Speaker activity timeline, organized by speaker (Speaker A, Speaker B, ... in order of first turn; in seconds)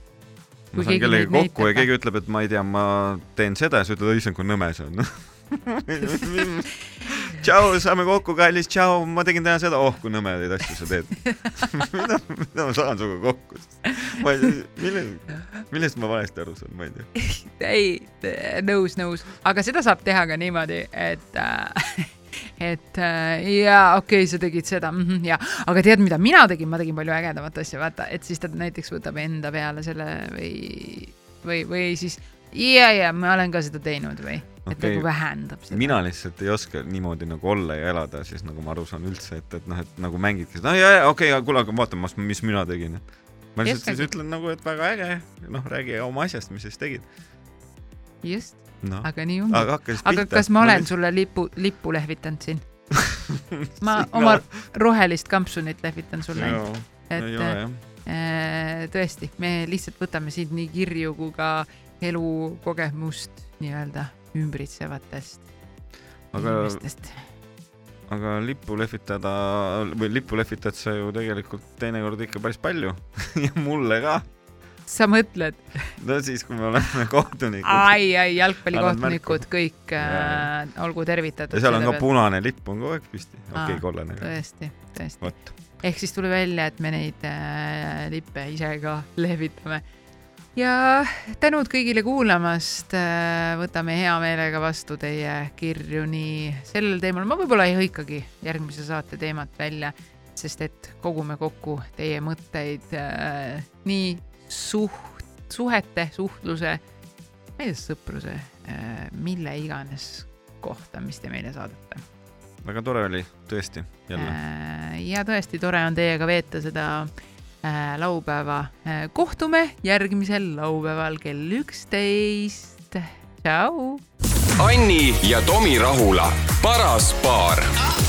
Speaker A: 0.7-17.1, 34.7-35.1, 35.7-47.1, 48.8-50.9, 53.0-54.5, 56.3-57.8, 66.3-66.8, 68.1-74.3, 76.0-78.0, 78.7-80.5, 81.5-84.4, 85.2-85.5, 112.6-114.4
Speaker B: 0.7-1.9, 17.2-36.0, 43.6-44.1, 48.2-52.6, 53.8-65.5, 66.3-67.2, 74.9-76.0, 77.6-82.1, 83.5-89.8, 90.6-106.8, 107.6-112.0, 114.2-117.1, 117.6-124.0
Speaker C: 124.6-127.7